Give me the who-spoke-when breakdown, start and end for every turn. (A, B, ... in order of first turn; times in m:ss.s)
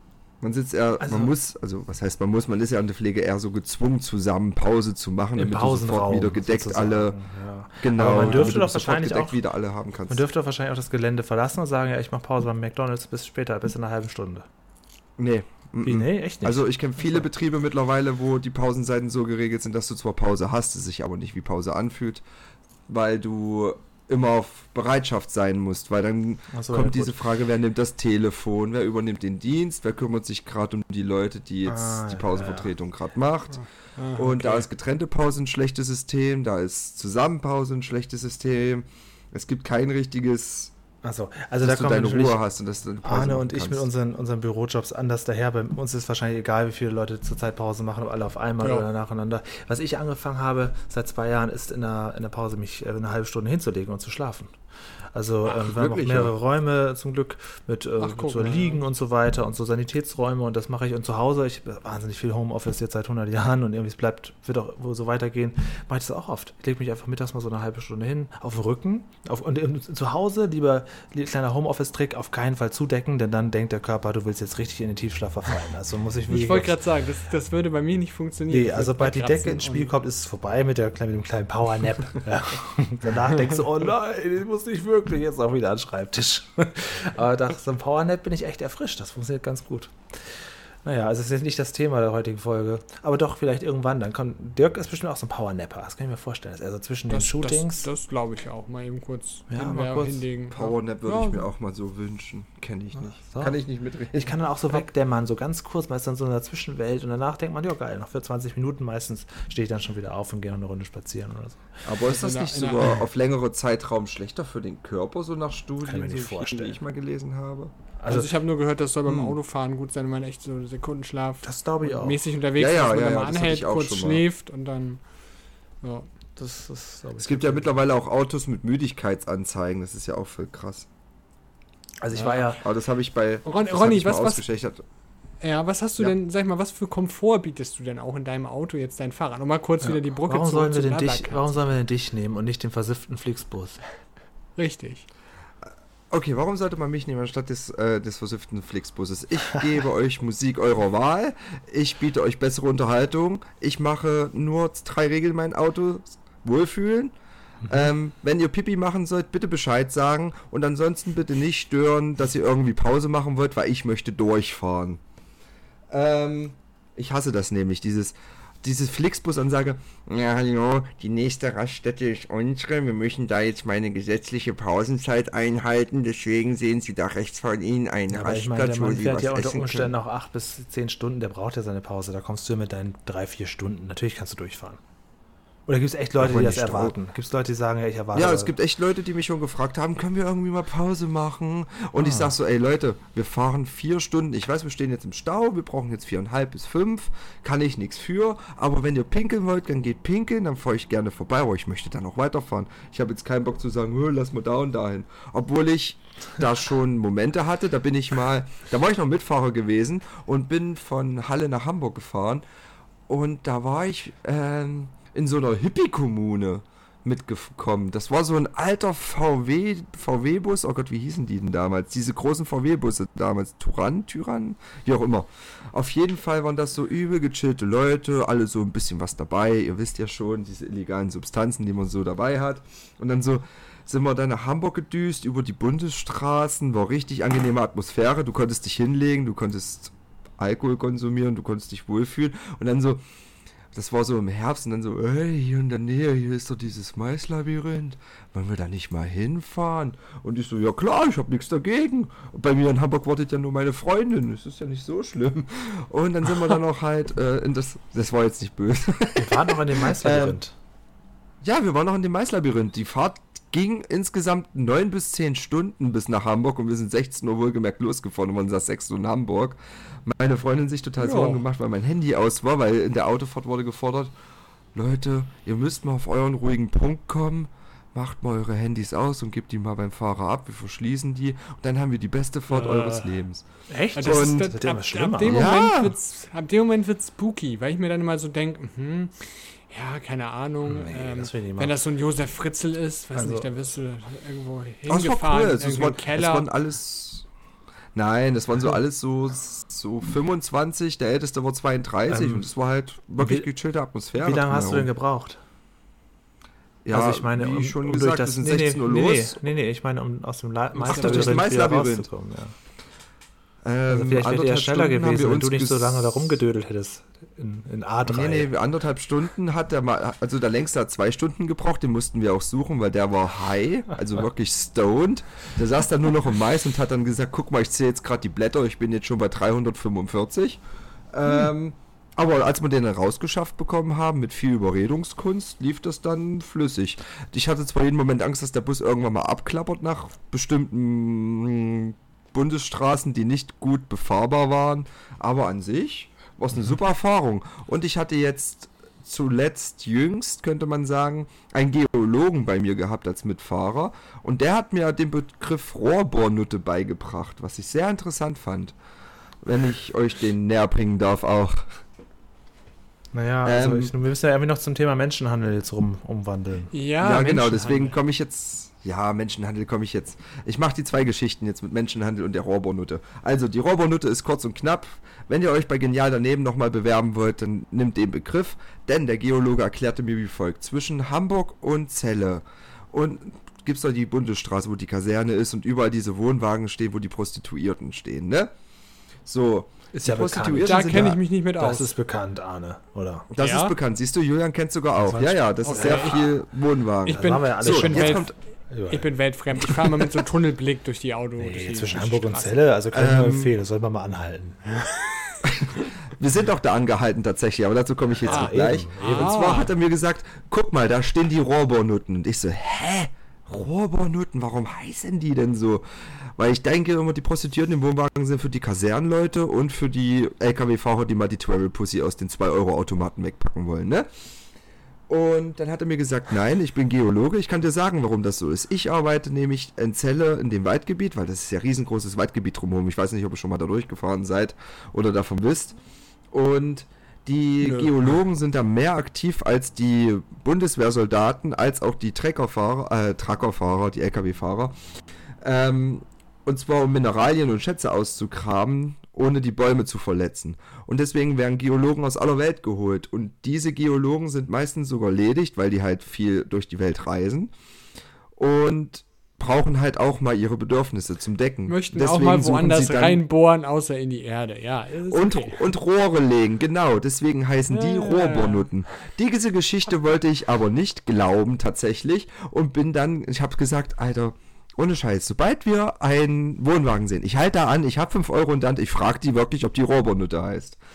0:00.4-0:07.2 A
0:01.0-0:01.3 B
0:05.4-0:09.4 B
0:07.8-0:10.2 A
0:08.1-0:08.6 C
0:10.1-0:14.5 B
0:15.2-0:22.2 A
0:15.8-0:17.3 B
0:22.9-0:33.6 A
0:26.5-0:27.2 B
0:31.6-0:32.7 B
0:34.0-0:34.6 C
0:34.1-0:40.7 A
0:41.0-0:42.4 B
0:41.6-0:43.9 A
0:43.0-0:54.6 B
0:48.6-0:48.8 C
0:55.1-1:16.8 B
0:55.6-0:56.3 A
0:58.0-0:58.8 C
1:16.3-1:19.9 C
1:18.5-1:37.9 B
1:37.1-1:41.4 C
1:39.5-1:40.2 B
1:40.5-1:44.3 A
1:42.9-1:43.6 B
1:44.1-1:51.7 B
1:51.8-1:57.7 A
1:52.0-1:53.0 C
1:55.8-1:56.8 B
1:58.0-1:58.3 B
1:58.1-2:05.0 C
1:59.0-1:59.4 A
2:01.4-2:02.2 B
2:02.6-2:04.2 A
2:05.8-2:06.1 C
2:06.4-2:07.7 B
2:07.2-2:10.9 A
2:12.0-2:12.6 B
2:12.2-2:12.5 C
2:12.5-2:14.8 A
2:13.4-2:14.4 C
2:15.4-2:21.5 C
2:19.8-2:23.8 B
2:24.6-2:25.1 C
2:25.6-2:37.1 A
2:37.6-2:37.9 B
2:37.7-2:45.0 A
2:45.9-2:59.9 A
2:58.1-3:04.8 B
3:05.7-3:08.5 B
3:06.2-3:06.9 A
3:08.1-3:32.4 A
3:12.0-3:12.3 B
3:33.1-4:03.0 A
4:03.7-4:20.4 A
4:19.2-4:20.5 B
4:21.4-4:34.1 A
4:31.0-4:31.4 C
4:34.7-4:43.4 A
4:42.5-4:43.2 C
4:43.7-4:45.6 B
4:43.9-4:56.5 C
4:44.0-4:44.5 A
4:45.2-4:45.9 A
4:50.6-4:51.8 B
4:53.1-4:53.5 B
4:54.9-4:57.2 A
4:57.9-5:04.9 A
5:02.1-5:02.5 B
5:03.2-5:03.5 B
5:04.2-5:05.4 B
5:06.8-5:09.4 A
5:06.9-5:12.5 B
5:10.8-5:12.1 A
5:10.8-5:11.4 C
5:13.6-5:16.3 A
5:13.9-5:18.5 B
5:18.1-5:58.7 A
5:59.4-6:01.8 A
6:03.1-6:06.7 B
6:03.4-6:03.9 A
6:06.7-6:08.0 C
6:07.0-6:28.5 A
6:29.2-6:31.2 A
6:29.9-6:33.3 B
6:30.6-6:31.9 C
6:33.3-6:38.3 A
6:33.4-6:33.7 C
6:35.0-6:36.2 B
6:35.6-6:36.4 C
6:37.0-6:38.3 C
6:37.1-6:39.1 B
6:38.9-6:42.6 C
6:41.4-6:44.6 B
6:42.9-6:43.5 A
6:44.8-6:45.4 C
6:45.4-6:55.8 A
6:48.2-6:49.5 B
6:48.3-6:49.7 C
6:56.4-7:04.1 A
7:05.1-7:15.8 A
7:16.3-7:24.7 A
7:17.6-7:17.9 C
7:25.4-7:37.5 A
7:38.4-7:43.2 A
7:41.7-7:45.6 C
7:45.1-8:00.8 A
7:47.7-7:48.7 C